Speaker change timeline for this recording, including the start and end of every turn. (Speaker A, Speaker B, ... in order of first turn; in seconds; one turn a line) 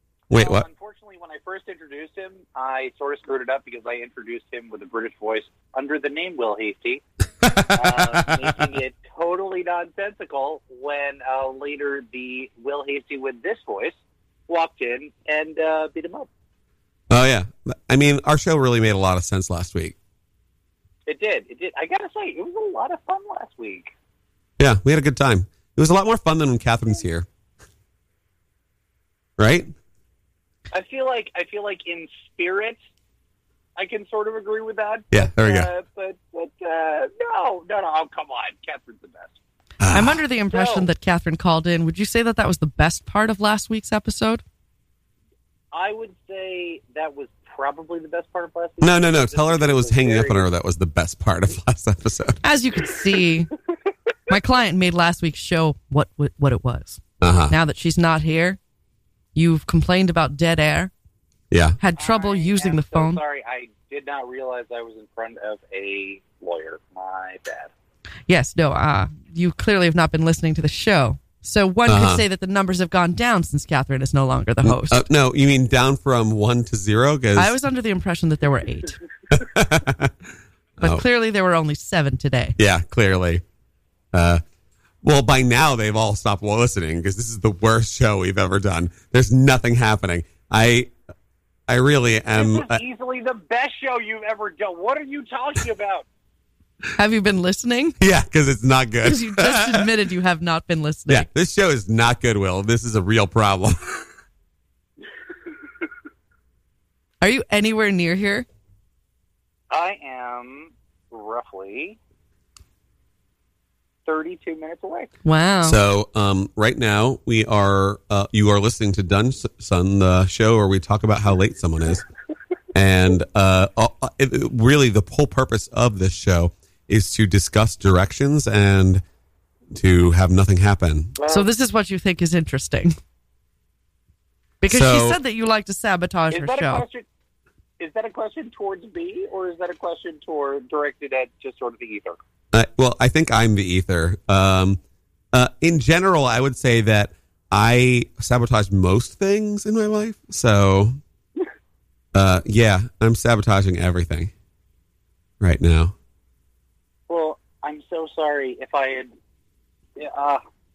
Speaker A: 0.3-0.7
Speaker B: 0.3-7.0
Speaker A: 7.4-8.5
Speaker B: 7.5-13.9
Speaker B: 14.5-16.3
Speaker A: 17.1-19.9
Speaker B: 21.1-23.9
Speaker A: 24.6-27.3
Speaker A: 29.4-29.7
Speaker B: 30.7-32.8
Speaker B: 33.8-39.4
Speaker A: 35.1-35.7
Speaker A: 39.8-40.2
Speaker C: 39.9-44.4
Speaker B: 40.5-40.9
Speaker B: 45.7-50.5
Speaker A: 48.8-52.4
Speaker C: 52.4-53.5
Speaker C: 54.3-58.6
Speaker A: 57.2-57.5
Speaker C: 59.3-60.9
Speaker A: 61.5-61.8
Speaker C: 61.8-63.2
Speaker B: 62.0-67.7
Speaker C: 68.3-75.1
Speaker A: 71.9-72.2
Speaker A: 74.6-77.5
Speaker C: 77.3-79.0
Speaker A: 79.3-80.1
Speaker A: 80.8-81.0
Speaker C: 80.8-82.6
Speaker A: 82.6-83.4
Speaker A: 84.1-84.4
Speaker A: 85.0-90.9
Speaker A: 91.7-92.8
Speaker B: 92.3-96.0
Speaker C: 97.0-98.0
Speaker A: 98.0-99.9
Speaker C: 99.0-101.3
Speaker A: 101.1-104.0
Speaker C: 107.2-108.5
Speaker B: 109.7-112.0
Speaker B: 114.0-115.1
Speaker C: 115.2-115.8
Speaker A: 115.6-122.0
Speaker A: 122.7-129.0
Speaker A: 129.7-131.2
Speaker B: 131.2-131.5
Speaker C: 131.3-132.9
Speaker C: 134.6-136.8
Speaker A: 134.7-135.2
Speaker B: 136.3-137.0
Speaker B: 137.8-142.2
Speaker A: 142.5-144.8
Speaker A: 145.3-151.0
Speaker A: 152.1-154.3
Speaker A: 155.4-155.9
Speaker B: 157.1-159.1
Speaker B: 159.9-160.4